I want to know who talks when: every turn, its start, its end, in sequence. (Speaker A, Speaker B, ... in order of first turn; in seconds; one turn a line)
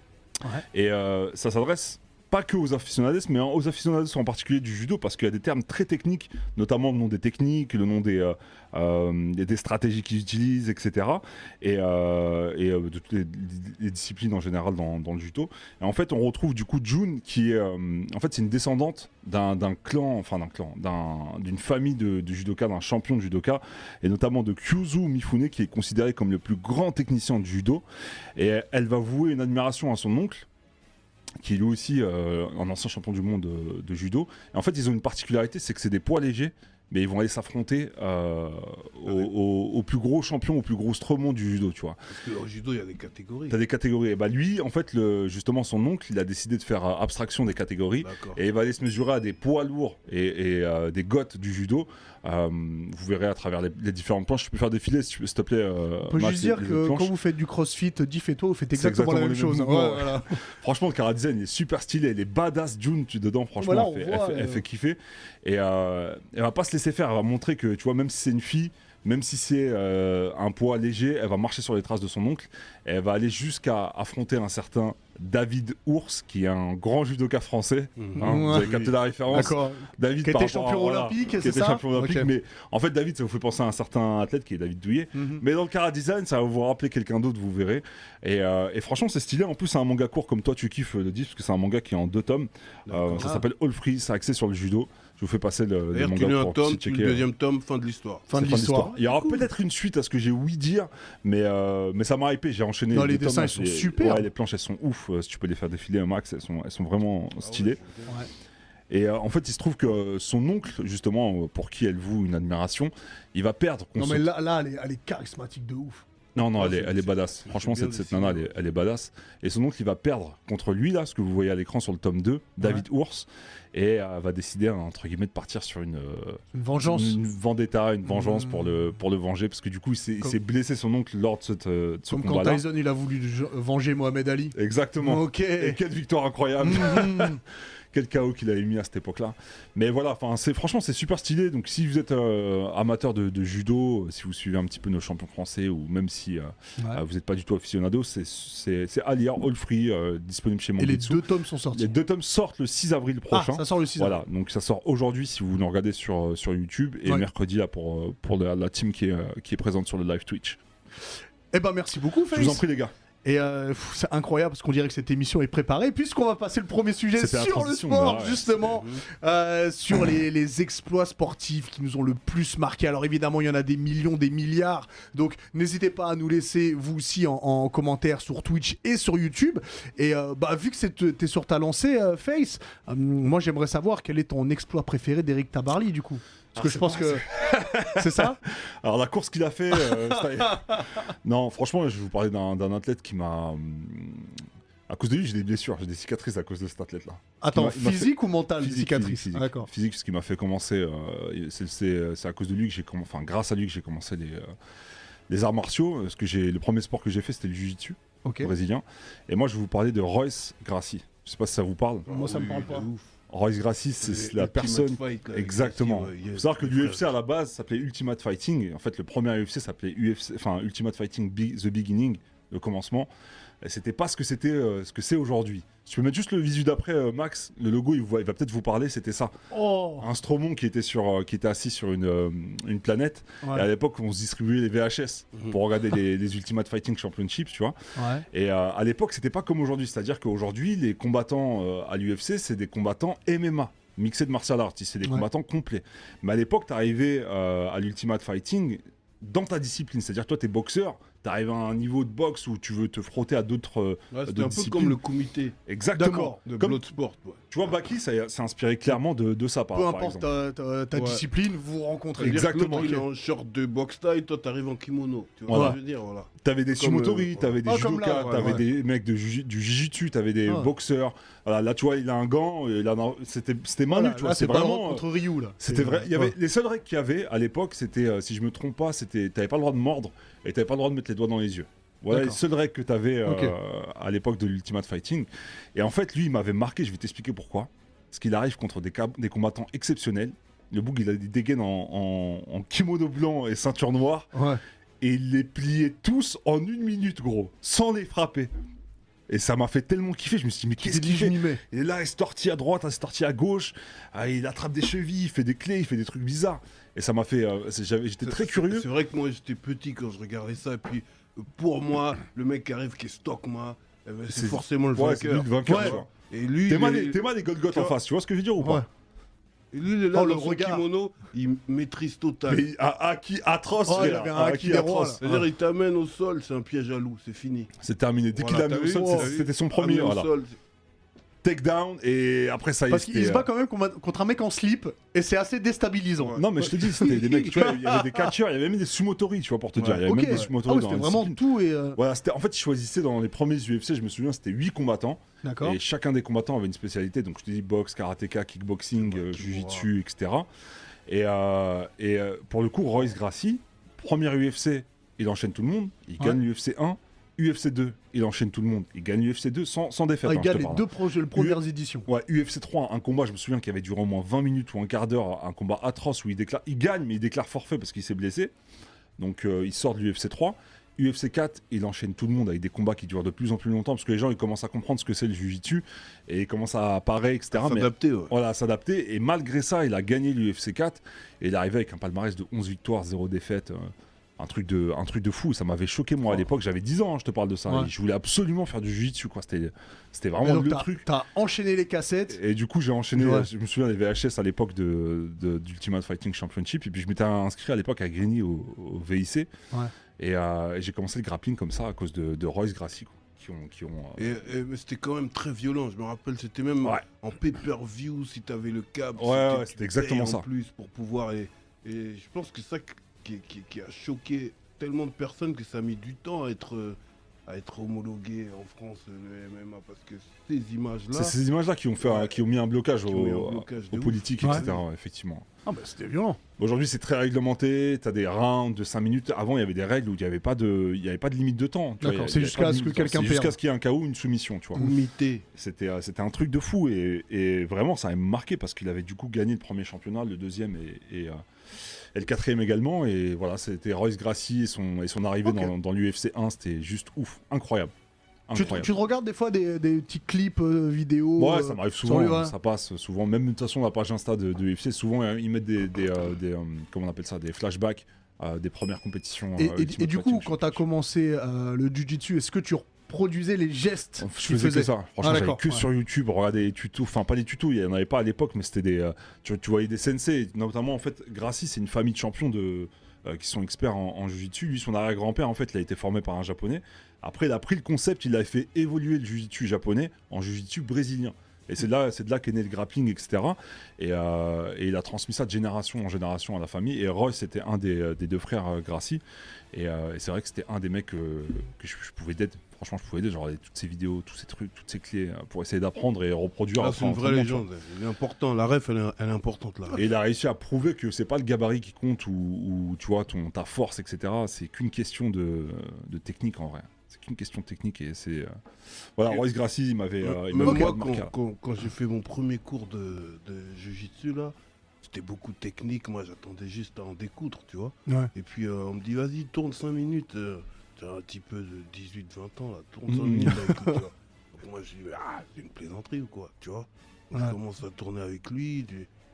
Speaker A: 0.7-27.8
Speaker A: 28.4-30.5
Speaker A: 31.4-42.0
Speaker B: 42.1-43.6
Speaker A: 43.5-57.1
Speaker B: 48.0-48.4
Speaker C: 56.1-60.4
Speaker A: 58.7-97.3
Speaker C: 63.6-64.6
Speaker B: 78.0-78.9
Speaker C: 78.2-82.3
Speaker C: 85.2-85.4
Speaker B: 92.9-93.3
Speaker B: 95.9-98.3
Speaker C: 98.3-99.4
Speaker A: 98.3-107.8
Speaker C: 102.9-104.2
Speaker B: 107.4-108.2
Speaker A: 108.9-114.3
Speaker C: 114.0-116.0
Speaker A: 116.3-132.6
Speaker B: 116.6-118.6
Speaker C: 126.5-127.2
Speaker C: 128.2-128.6
Speaker C: 132.1-135.8
Speaker A: 134.5-137.4
Speaker C: 136.6-137.4
Speaker A: 137.9-151.2
Speaker C: 146.8-147.0
Speaker C: 150.8-151.9
Speaker A: 151.7-160.6
Speaker C: 153.3-154.2
Speaker C: 161.5-162.6
Speaker A: 162.3-162.9
Speaker C: 163.2-187.3
Speaker A: 167.1-168.8
Speaker A: 186.6-204.5
Speaker C: 187.8-188.4
Speaker C: 189.8-190.8
Speaker C: 197.4-199.7
Speaker A: 205.3-212.1
Speaker C: 208.2-208.5
Speaker B: 212.1-213.1
Speaker C: 212.1-212.9
Speaker A: 213.3-223.1
Speaker B: 214.0-217.0
Speaker A: 223.6-229.3
Speaker C: 229.5-230.1
Speaker A: 230.0-237.8
Speaker C: 238.0-238.3
Speaker A: 238.3-255.0
Speaker B: 254.1-255.6
Speaker A: 255.7-256.8
Speaker C: 256.0-256.4
Speaker B: 256.4-257.5
Speaker A: 257.5-260.3
Speaker C: 259.7-263.0
Speaker B: 260.9-261.2
Speaker B: 262.2-267.6
Speaker A: 262.2-263.1
Speaker A: 265.5-265.8
Speaker C: 265.5-265.8
Speaker A: 266.4-275.1
Speaker C: 267.7-268.6
Speaker B: 268.2-268.6
Speaker C: 273.9-276.3
Speaker A: 275.6-294.3
Speaker C: 282.1-282.4
Speaker C: 283.3-283.6
Speaker C: 294.3-294.6
Speaker A: 295.0-298.5
Speaker A: 299.3-308.9
Speaker C: 300.8-301.6
Speaker B: 308.2-317.9
Speaker A: 314.3-316.1
Speaker C: 315.7-316.0
Speaker A: 316.7-318.9
Speaker C: 318.6-318.9
Speaker B: 319.7-322.7
Speaker C: 320.1-320.8
Speaker A: 322.5-325.2
Speaker C: 323.9-325.4
Speaker B: 325.2-327.7
Speaker A: 327.8-330.3
Speaker B: 328.3-330.6
Speaker C: 328.9-329.3
Speaker A: 331.4-333.5
Speaker C: 332.9-338.3
Speaker B: 336.2-337.7
Speaker A: 336.4-341.4
Speaker B: 339.8-340.5
Speaker C: 340.1-342.0
Speaker A: 342.0-350.5
Speaker C: 345.4-345.8
Speaker B: 349.0-349.9
Speaker A: 351.1-368.5
Speaker C: 360.2-362.1
Speaker A: 369.2-391.1
Speaker B: 377.5-378.3
Speaker C: 390.4-392.4
Speaker A: 392.3-399.5
Speaker C: 393.2-393.5
Speaker A: 400.2-404.4
Speaker B: 404.2-421.4
Speaker A: 409.2-410.5
Speaker A: 421.1-425.5
Speaker B: 422.0-422.4
Speaker B: 423.1-424.8
Speaker C: 425.7-426.4
Speaker A: 426.6-434.9
Speaker C: 432.0-433.6
Speaker B: 434.8-435.4
Speaker A: 435.6-447.9
Speaker C: 445.4-445.7
Speaker A: 448.5-448.9
Speaker C: 448.5-452.5
Speaker A: 451.4-460.8
Speaker C: 459.6-465.9
Speaker A: 464.2-497.6
Speaker B: 496.8-500.1
Speaker A: 499.9-508.6
Speaker A: 509.2-511.3
Speaker B: 510.3-529.1
Speaker C: 510.6-510.9
Speaker A: 523.1-523.6
Speaker C: 523.6-524.0